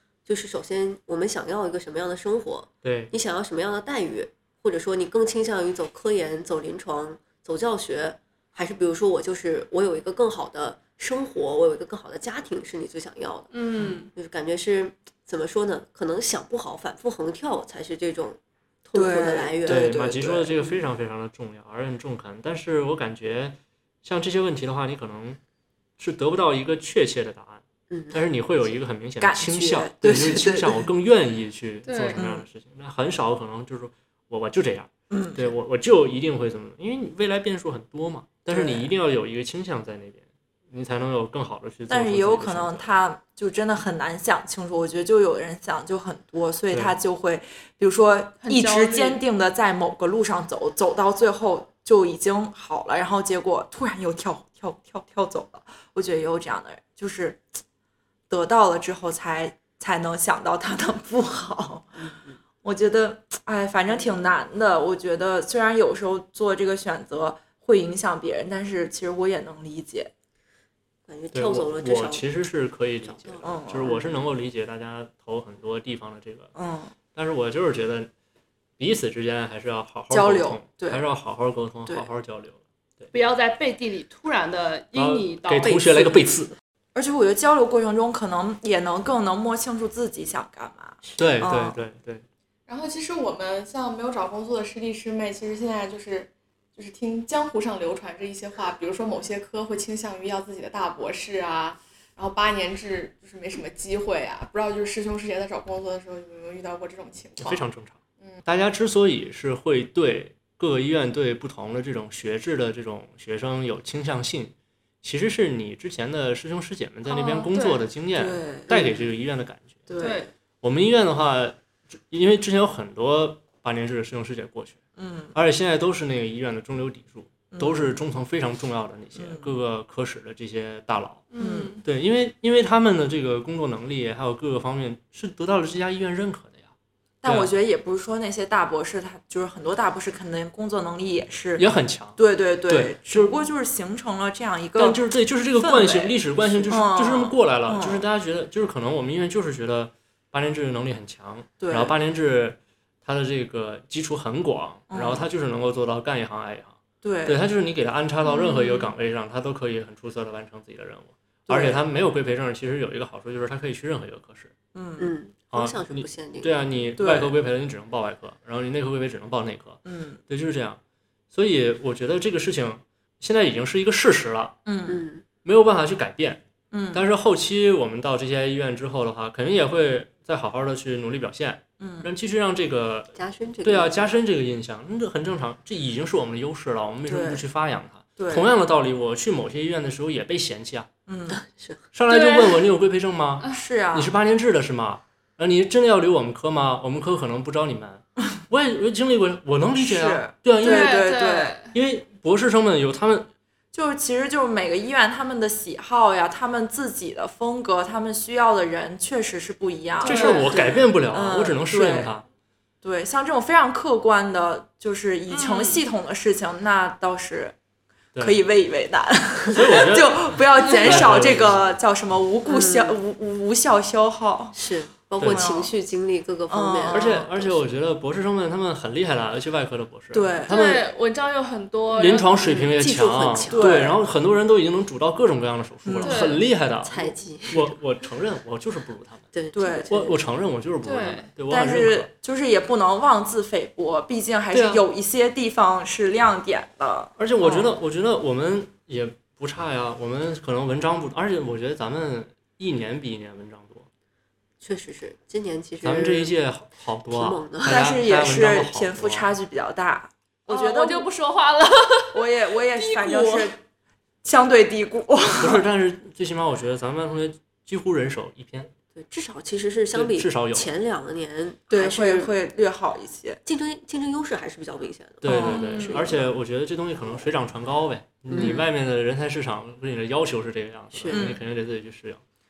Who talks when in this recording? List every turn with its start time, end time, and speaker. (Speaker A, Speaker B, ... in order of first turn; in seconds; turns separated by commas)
Speaker A: 0.2-13.5, Speaker B: 2.8-3.1, Speaker C: 13.5-14.1, Speaker A: 14.1-19.9, Speaker D: 18.9-20.7, Speaker B: 19.6-25.4, Speaker B: 26.0-42.9, Speaker A: 27.9-28.7, Speaker D: 29.2-30.9, Speaker C: 31.9-32.2, Speaker D: 32.1-32.5, Speaker D: 35.1-35.5, Speaker D: 38.5-38.9, Speaker D: 41.9-57.4, Speaker C: 48.4-49.2, Speaker D: 58.3-62.0, Speaker A: 62.0-62.4, Speaker D: 62.6-70.1, Speaker A: 71.1-72.3, Speaker B: 71.3-76.5, Speaker A: 73.0-74.2, Speaker D: 73.4-74.0, Speaker D: 76.5-76.9, Speaker B: 77.1-78.1, Speaker B: 78.8-83.1, Speaker D: 80.1-81.0, Speaker C: 83.1-86.2, Speaker B: 84.9-86.5, Speaker D: 86.9-91.8, Speaker A: 91.0-91.3, Speaker B: 91.2-92.2, Speaker E: 92.7-107.7, Speaker B: 107.4-119.9, Speaker C: 117.0-117.8, Speaker D: 118.1-118.9, Speaker D: 119.9-120.3, Speaker C: 120.0-120.3, Speaker B: 120.6-124.8, Speaker D: 125.0-125.3, Speaker B: 125.3-131.2, Speaker D: 127.5-128.0, Speaker D: 129.2-129.5, Speaker C: 131.3-131.8, Speaker D: 131.4-131.8, Speaker B: 131.8-136.7, Speaker D: 137.2-141.7, Speaker B: 137.2-137.5, Speaker B: 141.6-143.3, Speaker D: 142.2-145.0, Speaker B: 144.8-164.5, Speaker D: 145.6-148.1, Speaker A: 146.4-146.8, Speaker D: 151.6-151.9, Speaker D: 154.9-155.3, Speaker D: 157.0-157.4, Speaker C: 158.3-158.8, Speaker D: 161.5-161.8, Speaker D: 164.7-165.1, Speaker A: 165.0-166.5, Speaker B: 165.5-170.8, Speaker D: 167.0-167.3, Speaker D: 169.8-170.2, Speaker B: 171.3-174.6, Speaker D: 174.6-175.0, Speaker A: 174.8-175.2, Speaker B: 175.4-190.9, Speaker D: 176.7-177.0, Speaker D: 181.8-182.1, Speaker A: 183.1-184.0, Speaker D: 187.1-187.4, Speaker D: 188.2-188.5, Speaker D: 191.1-191.4, Speaker A: 191.3-191.8, Speaker B: 191.9-201.0, Speaker C: 192.1-192.6, Speaker D: 193.5-194.1, Speaker D: 199.8-201.5, Speaker C: 200.6-201.7, Speaker B: 201.7-203.3, Speaker D: 203.7-212.1, Speaker C: 210.0-210.6, Speaker B: 210.0-212.2, Speaker A: 210.5-210.9, Speaker D: 212.8-217.6, Speaker C: 215.3-215.8, Speaker B: 218.1-218.4, Speaker D: 218.2-224.6, Speaker B: 219.5-221.7, Speaker A: 222.5-222.9, Speaker A: 224.5-227.7, Speaker B: 225.2-225.5, Speaker D: 225.2-225.7, Speaker D: 226.5-227.3, Speaker B: 226.9-230.8, Speaker D: 230.1-230.5, Speaker C: 230.5-232.3, Speaker B: 231.9-239.3, Speaker A: 232.4-233.8, Speaker D: 233.5-234.0, Speaker D: 235.8-236.2, Speaker C: 236.0-236.4, Speaker A: 236.8-237.7, Speaker A: 239.3-240.2, Speaker D: 239.5-240.1, Speaker B: 239.9-242.1, Speaker C: 240.8-241.3, Speaker D: 241.5-247.5, Speaker B: 244.5-244.8, Speaker B: 247.2-253.9, Speaker A: 254.6-256.3, Speaker B: 255.8-259.3, Speaker A: 257.1-257.9, Speaker D: 257.7-261.1, Speaker C: 260.5-262.2, Speaker D: 262.1-263.6, Speaker C: 262.7-263.5, Speaker D: 264.2-265.6, Speaker B: 265.4-268.7, Speaker A: 268.9-272.3, Speaker B: 269.9-270.7, Speaker D: 271.7-273.4, Speaker A: 273.4-276.3, Speaker B: 275.2-282.2, Speaker D: 275.2-275.6, Speaker C: 275.4-276.0, Speaker A: 278.3-278.6, Speaker A: 280.9-281.3, Speaker D: 281.1-281.4